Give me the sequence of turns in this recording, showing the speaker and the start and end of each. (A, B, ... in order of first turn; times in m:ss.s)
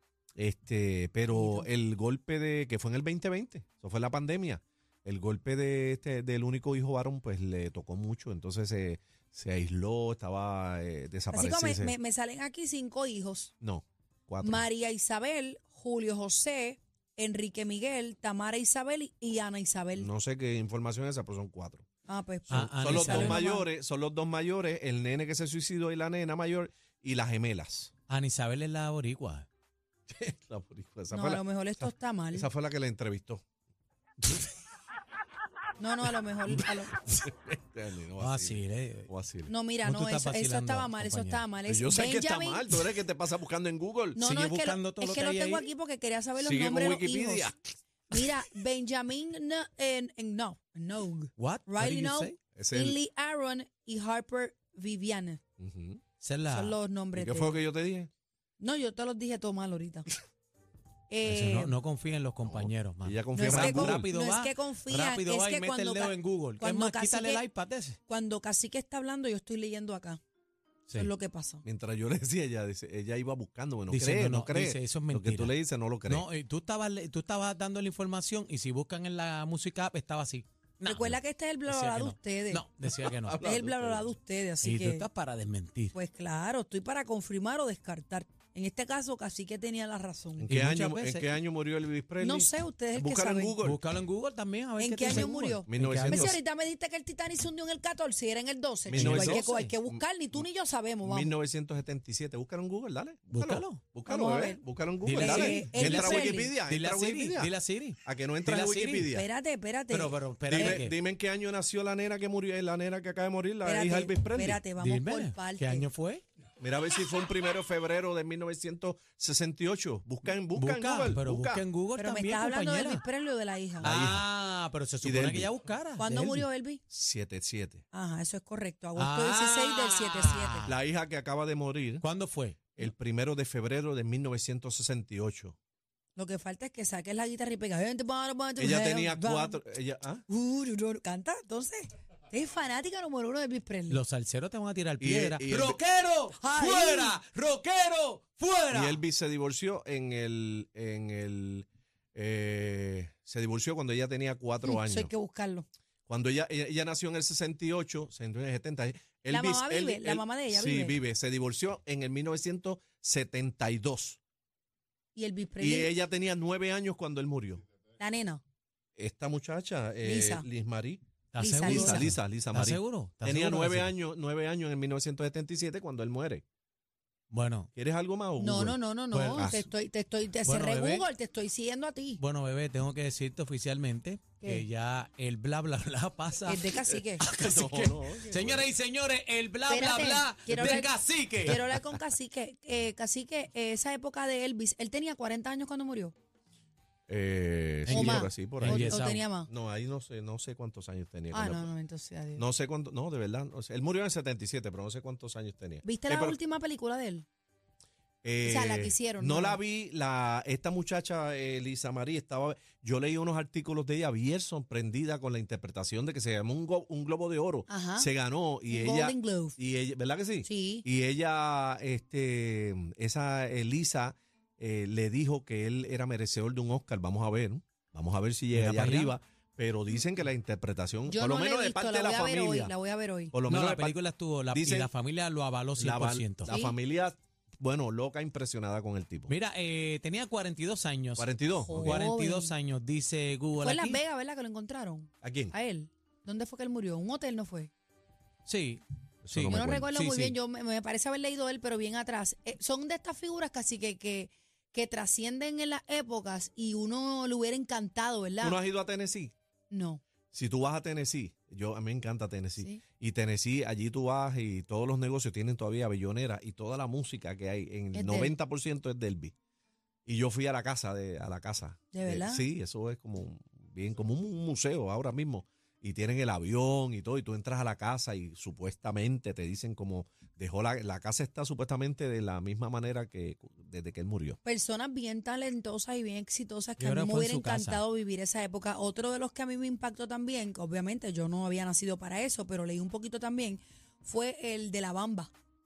0:00.4-0:12.0 A
0:01.3-0:01.7 B
0:11.3-0:13.5 B
0:13.6-0:14.7 A
0:14.4-0:20.1 B
0:20.0-0:21.8 A
0:22.1-0:23.7 B
0:22.5-0:27.9 A
0:22.5-0:23.4 C
0:28.1-0:29.5 C
0:30.1-0:33.4 A
0:31.1-0:32.5 B
0:35.8-0:37.0 B
0:37.0-0:39.5 A
0:38.2-0:39.1 C
0:39.5-0:42.8 B
0:39.8-0:41.4 C
0:41.7-0:44.2 A
0:44.2-0:47.5 B
0:44.2-0:45.7 C
0:46.4-0:47.6 A
0:48.1-0:55.4 B
0:48.1-0:48.4 A
0:51.4-0:52.4 C
0:52.6-0:53.0 A
0:55.6-0:56.0 A
0:56.2-0:56.8 C
0:56.5-0:57.6 B
0:57.2-0:58.1 A
0:58.6-1:00.1 B
1:01.1-1:01.8 B
1:01.2-1:08.0 C
1:02.4-1:04.1 A
1:03.4-1:07.4 B
1:08.1-1:10.2 B
1:11.0-1:11.6 B
1:11.6-1:16.3 A
1:13.9-1:23.5 C
1:20.9-1:22.6 B
1:22.8-1:24.1 A
1:23.4-1:25.0 B
1:24.6-1:25.9 C
1:25.9-1:30.5 B
1:30.4-1:33.8 A
1:30.5-1:31.3 C
1:32.2-1:33.6 B
1:33.6-1:36.4 C
1:34.8-1:41.3 B
1:35.1-1:36.4 A
1:38.9-1:40.5 A
1:38.9-1:39.7 C
1:41.0-1:47.5 A
1:43.3-1:43.8 C
1:44.1-1:46.5 B
1:45.0-1:49.1 C
1:48.0-1:49.3 A
1:49.1-1:50.8 B
1:49.9-1:51.0 C
1:50.5-1:54.6 A
1:53.6-1:55.9 B
1:54.8-1:56.2 C
1:56.6-2:01.6 A
2:00.6-2:03.0 C
2:02.0-2:03.9 B
2:03.8-2:04.3 A
2:03.8-2:06.5 C
2:05.0-2:05.6 A
2:06.0-2:06.8 B
2:06.9-2:07.8 A
2:07.9-2:10.7 B
2:09.0-2:10.8 C
2:10.7-2:12.0 A
2:12.0-2:12.9 C
2:12.8-2:15.6 A
2:16.2-2:19.6 B
2:18.6-2:20.2 A
2:20.3-2:24.0 B
2:23.9-2:29.0 C
2:25.0-2:25.8 A
2:26.4-2:27.2 B
2:28.7-2:35.1 A
2:34.6-2:35.7 B
2:36.1-2:44.2 A
2:39.3-2:41.0 B
2:45.2-2:46.0 B
2:45.6-2:47.6 A
2:48.0-2:48.4 B
2:49.0-2:51.0 A
2:50.0-2:50.5 B
2:51.3-2:53.9 C
2:51.4-2:52.1 B
2:51.6-2:56.4 A
2:57.3-2:57.7 C
2:57.8-2:58.8 A
2:58.4-3:02.2 B
2:59.1-2:59.6 C
2:59.3-2:59.6 A
3:00.4-3:01.1 C
3:02.2-3:11.6 C
3:06.5-3:07.2 B
3:07.2-3:08.7 A
3:09.7-3:10.9 B
3:10.5-3:10.9 A
3:11.4-3:16.1 B
3:11.4-3:12.0 A
3:17.1-3:21.7 A
3:17.9-3:19.2 C
3:17.9-3:19.5 B
3:21.3-3:22.4 B
3:22.4-3:26.4 A
3:25.8-3:27.3 B
3:28.2-3:52.7 A
3:28.4-3:29.6 B
3:37.7-3:38.1 B
3:38.7-3:39.6 B
3:40.4-3:40.9 B
3:48.5-3:49.2 C
3:51.1-3:53.4 B
3:53.3-3:54.9 A
3:53.5-3:56.6 C
3:55.8-3:59.3 A
3:56.5-3:56.8 B
3:59.3-4:04.0 C
4:01.2-4:02.0 A
4:01.6-4:02.5 B
4:03.6-4:07.7 B
4:05.2-4:05.5 A
4:08.5-4:10.4 C
4:09.2-4:09.9 A
4:09.5-4:18.6 B
4:18.4-4:19.3 A
4:19.7-4:20.0 B
4:20.3-4:29.3 A
4:27.9-4:28.4 B
4:30.1-4:44.4 A
4:31.9-4:32.5 B
4:44.4-4:55.3 B
4:46.8-4:47.8 C